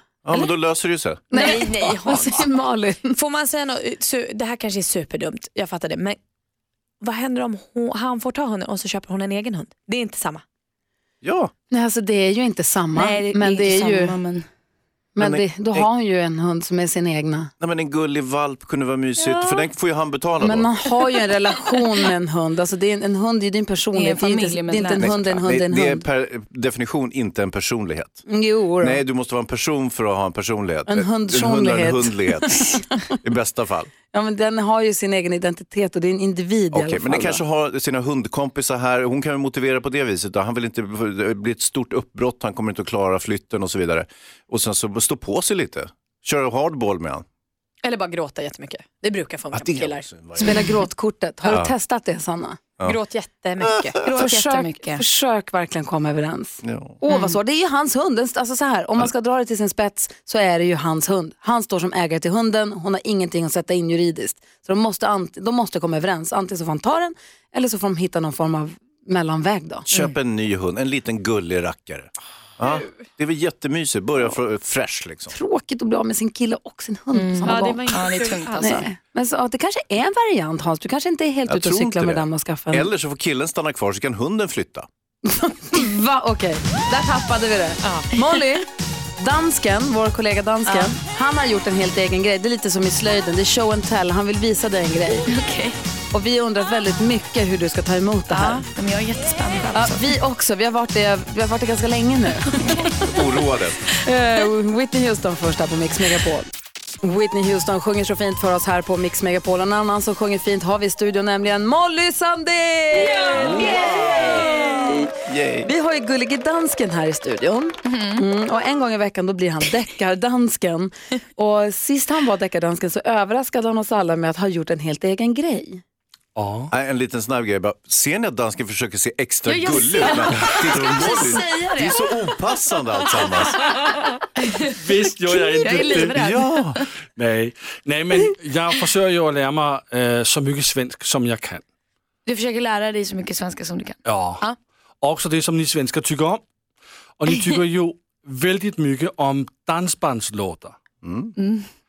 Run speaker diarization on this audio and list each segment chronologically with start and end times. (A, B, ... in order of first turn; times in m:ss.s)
0:00.2-0:01.2 A
0:01.3-0:03.2 B
0:01.3-0:06.2 C
0:07.0-0:10.4 C
0:11.2-0:11.5 A
0:11.7-0:14.2 B
0:13.3-0:14.4 D
0:15.2-0:17.5 B
0:15.2-0:15.9 A
0:17.6-0:20.7 A
0:20.4-0:26.0 B
0:23.9-0:25.1 D
0:25.0-0:28.2 A
0:28.3-0:29.0 B
0:28.8-0:33.9 A
0:30.9-0:32.2 B
0:34.1-0:37.4 B
0:36.7-0:47.2 A
0:47.8-0:50.1 C
0:49.5-0:50.7 A
0:50.4-0:52.6 B
0:51.4-0:51.7 A
0:52.8-0:54.1 C
0:53.6-0:54.0 A
0:54.0-1:09.9 B
0:54.2-0:55.0 D
0:56.6-0:57.0 A
0:57.1-0:57.4 D
1:09.9-1:15.4 A
1:15.3-1:22.9 B
1:17.1-1:18.8 D
1:17.4-1:18.9 C
1:21.5-1:24.9 A
1:25.2-1:28.7 B
1:27.8-1:28.1 C
1:29.2-1:35.3 B
1:35.3-1:35.8 D
1:36.1-1:38.6 B
1:38.3-1:40.1 D
1:39.8-1:42.6 B
1:43.1-1:43.8 A
1:44.0-1:46.5 B
1:47.0-1:55.1 B
1:53.0-1:53.7 D
1:53.4-1:54.4 A
1:55.3-1:55.7 A
1:55.6-2:05.8 B
1:57.9-1:58.2 D
2:06.4-2:06.7 E
2:06.7-2:13.7 A
2:09.5-2:12.2 D
2:13.1-2:13.6 D
2:14.4-2:14.7 D
2:14.8-2:16.3 E
2:15.3-2:16.8 D
2:16.1-2:16.8 A
2:17.2-2:21.6 E
2:22.3-2:24.6 D
2:24.0-2:24.4 E
2:25.0-2:26.4 E
2:27.2-2:30.8 E
2:31.0-2:31.3 A
2:31.4-2:31.7 D